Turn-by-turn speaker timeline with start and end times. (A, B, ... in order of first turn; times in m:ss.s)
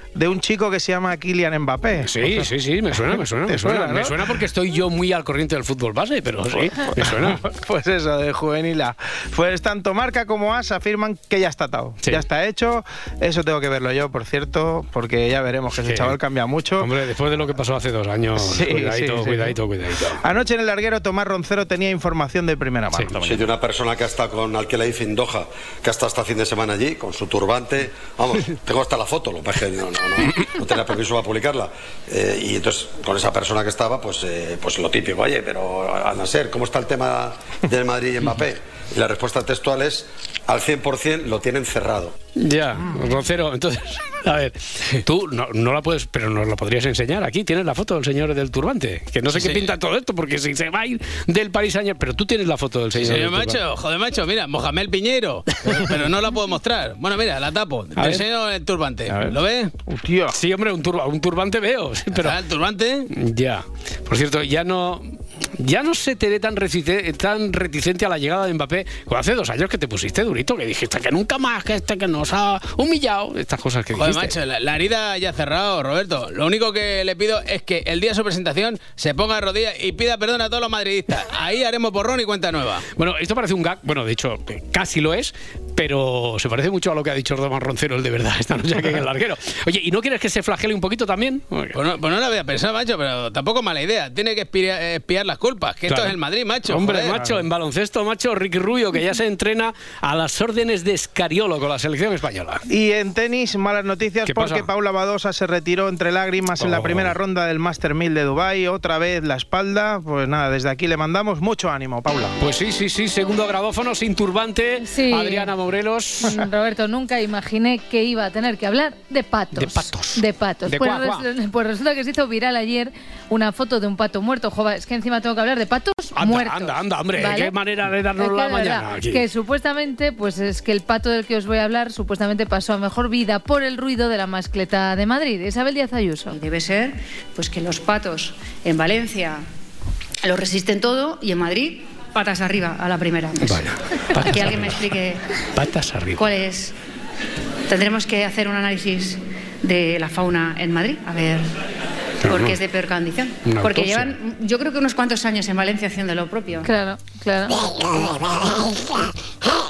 0:00.2-0:02.5 A
0:02.0-0:07.4 B
0:03.1-0:04.2 A
0:06.6-0:16.9 A
0:15.8-0:16.2 B
0:16.8-0:20.2 B
0:18.4-0:19.6 A
0:20.2-0:23.4 A
0:23.2-0:42.1 C
0:42.4-0:53.6 B
0:49.3-0:49.7 D
0:53.0-0:59.7 D
0:58.0-0:58.2 B
0:59.1-1:00.4 A
1:00.3-1:02.4 B
1:02.1-1:03.1 D
1:03.1-1:14.3 B
1:13.9-1:22.8 D
1:23.0-1:31.7 B
1:31.7-1:37.2 D
1:35.9-1:36.1 B
1:36.7-1:42.6 B
1:42.7-1:52.4 A
1:44.2-1:44.6 B
1:46.6-1:47.1 B
1:52.4-1:56.4 B
1:54.8-1:55.5 E
1:56.3-2:07.5 E
1:59.6-2:01.2 B
2:06.2-2:09.2 B
2:08.2-2:16.4 E
2:16.3-2:19.4 F
2:20.2-2:23.6 F
2:23.4-2:24.8 B
2:24.2-2:25.2 F
2:25.6-2:26.2 B
2:26.2-2:26.7 F
2:27.7-2:31.5 F
2:32.2-2:32.6 B
2:32.2-2:36.7 F
2:33.4-2:34.1 B
2:36.6-2:38.0 E